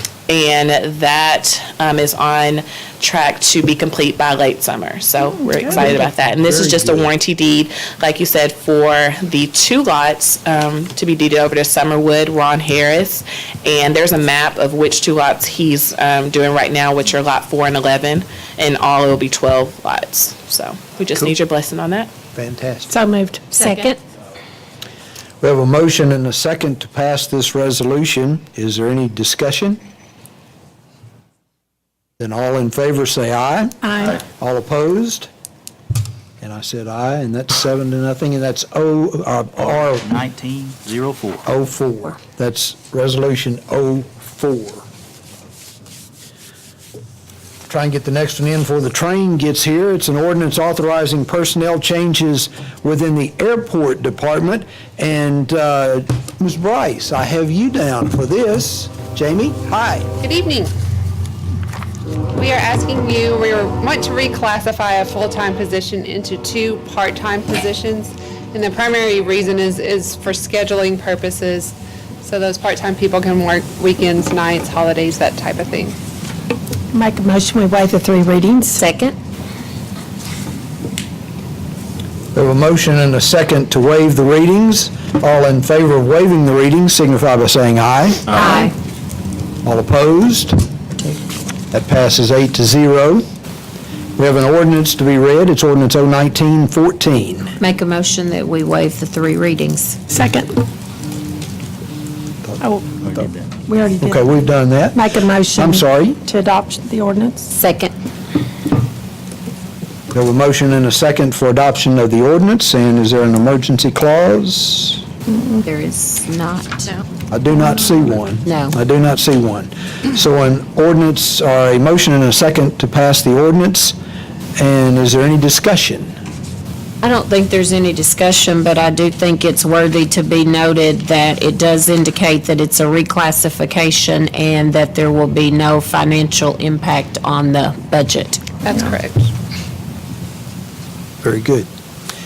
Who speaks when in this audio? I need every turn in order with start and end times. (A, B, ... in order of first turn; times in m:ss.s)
0:00.3-0:22.1 A
0:05.7-0:07.0 B
0:22.3-0:22.9 B
0:22.9-0:23.9 C
0:23.7-0:23.9 D
0:25.4-0:29.8 B
0:32.2-0:35.3 B
0:33.8-0:34.2 C
0:36.4-0:40.1 B
0:40.0-0:41.4 E
0:41.4-0:44.8 B
0:47.7-1:00.1 B
1:00.2-1:00.7 F
1:02.3-1:16.0 F
1:16.9-1:18.8 C
1:18.7-1:19.2 D
1:22.3-1:28.4 B
1:28.4-1:28.7 D
1:29.6-1:30.6 B
1:31.7-1:33.2 B
1:34.2-1:37.5 B
1:37.6-1:40.0 D
1:40.1-1:40.5 C
1:42.6-1:42.9 C
1:43.0-1:43.5 E
1:43.6-1:44.4 C
1:44.0-1:46.2 B
1:44.9-1:47.5 C
1:47.5-1:47.9 D
1:50.1-1:55.0 B
1:55.6-1:57.0 D
1:57.3-2:04.0 B
1:58.4-1:58.8 D
2:04.6-2:06.1 B
2:07.0-2:18.4 D
2:18.6-2:19.3 F
2:21.2-2:21.7 B